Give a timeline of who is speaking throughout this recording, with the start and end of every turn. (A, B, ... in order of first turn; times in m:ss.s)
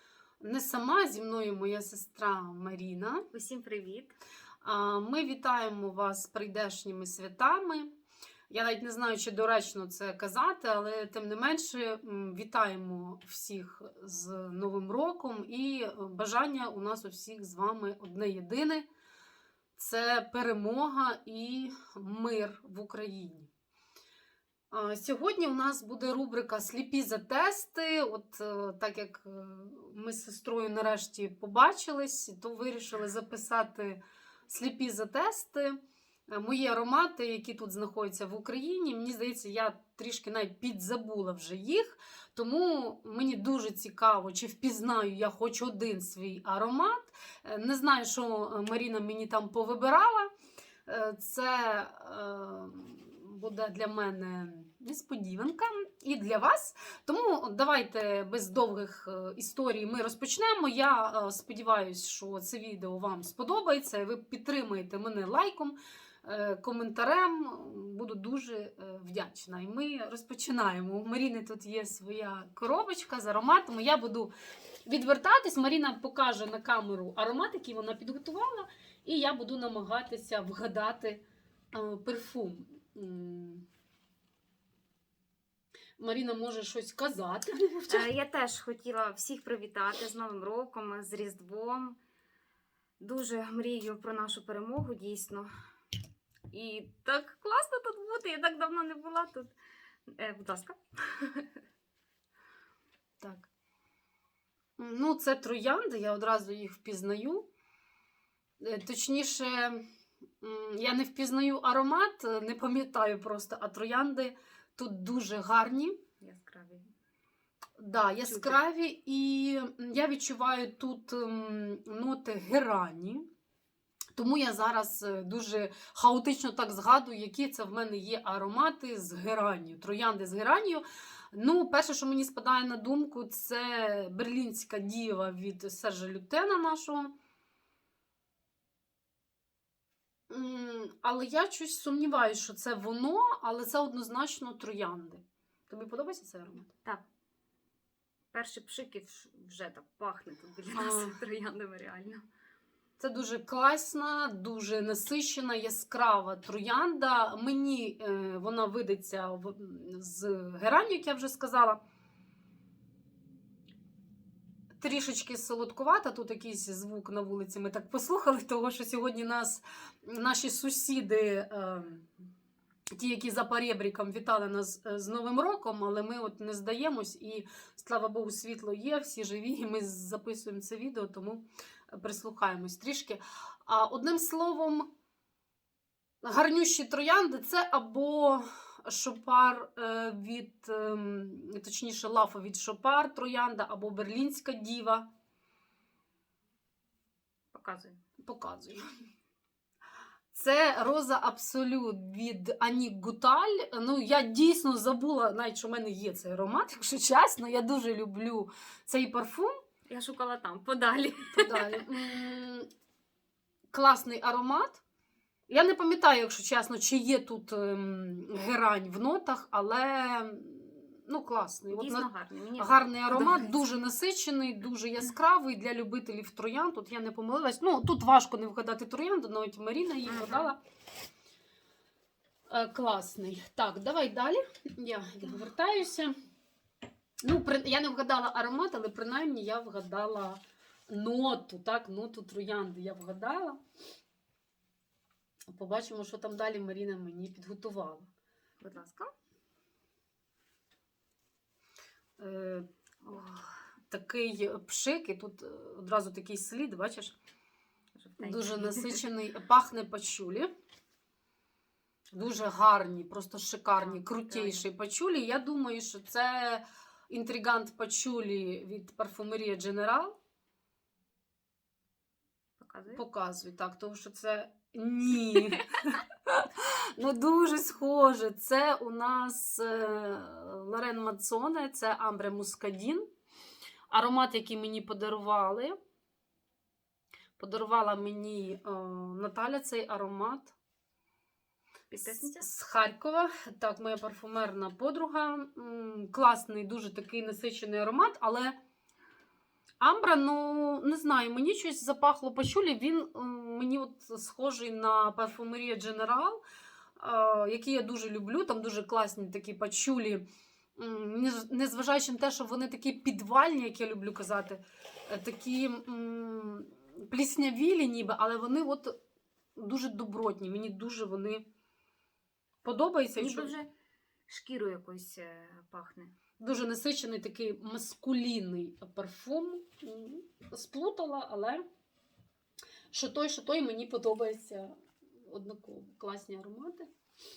0:00.4-0:03.3 A
0:03.3-0:04.2 B
0:04.6-0:07.9 A
0:08.5-0:18.9 A
0:19.8-0:23.5 A
0:24.7-0:35.8 A
0:36.3-0:50.3 A
0:50.9-1:14.3 A
1:14.9-1:23.6 A
1:26.0-1:28.1 A
1:27.9-1:32.0 B
1:33.0-1:35.5 B
1:36.5-1:39.5 B
1:40.1-1:41.5 B
1:43.2-1:43.5 A
1:44.8-1:47.5 A
1:48.6-1:49.8 A
1:50.4-1:56.0 A
1:56.2-1:56.9 B
1:57.8-2:03.3 A
1:58.3-1:58.6 B
2:04.2-2:17.1 A
2:20.3-2:26.7 A
2:28.3-2:32.2 B
2:30.7-2:31.2 A
2:33.0-2:41.8 A
2:44.8-2:52.1 A
2:53.0-3:04.9 A
3:06.2-3:15.1 A
3:17.5-3:18.0 B
3:18.2-3:18.8 A
3:20.3-3:29.5 A
3:29.9-3:31.9 B
3:31.3-3:32.7 A
3:33.7-3:34.8 A
3:35.5-3:50.6 A
3:41.7-3:43.5 B
3:50.1-3:50.5 B
3:52.5-3:56.1 A
3:57.2-4:03.6 A
4:05.5-4:08.1 A
4:08.6-4:09.1 B
4:12.2-4:13.2 A
4:13.0-4:13.6 B
4:13.9-4:17.2 A
4:18.0-4:19.0 B
4:18.2-4:20.5 A
4:22.1-4:30.2 A
4:23.8-4:24.7 B
4:32.6-4:33.0 B
4:32.9-4:43.0 A
4:43.9-4:45.8 A
4:47.4-4:50.5 A
4:51.9-4:52.5 B
4:52.1-4:58.6 A
4:59.8-5:06.4 A
5:07.0-5:10.2 A
5:10.8-5:19.0 A
5:19.6-5:21.4 A
5:22.6-5:23.5 A
5:23.2-5:23.7 B
5:24.3-5:26.1 B
5:26.4-5:31.6 A
5:32.9-5:36.9 A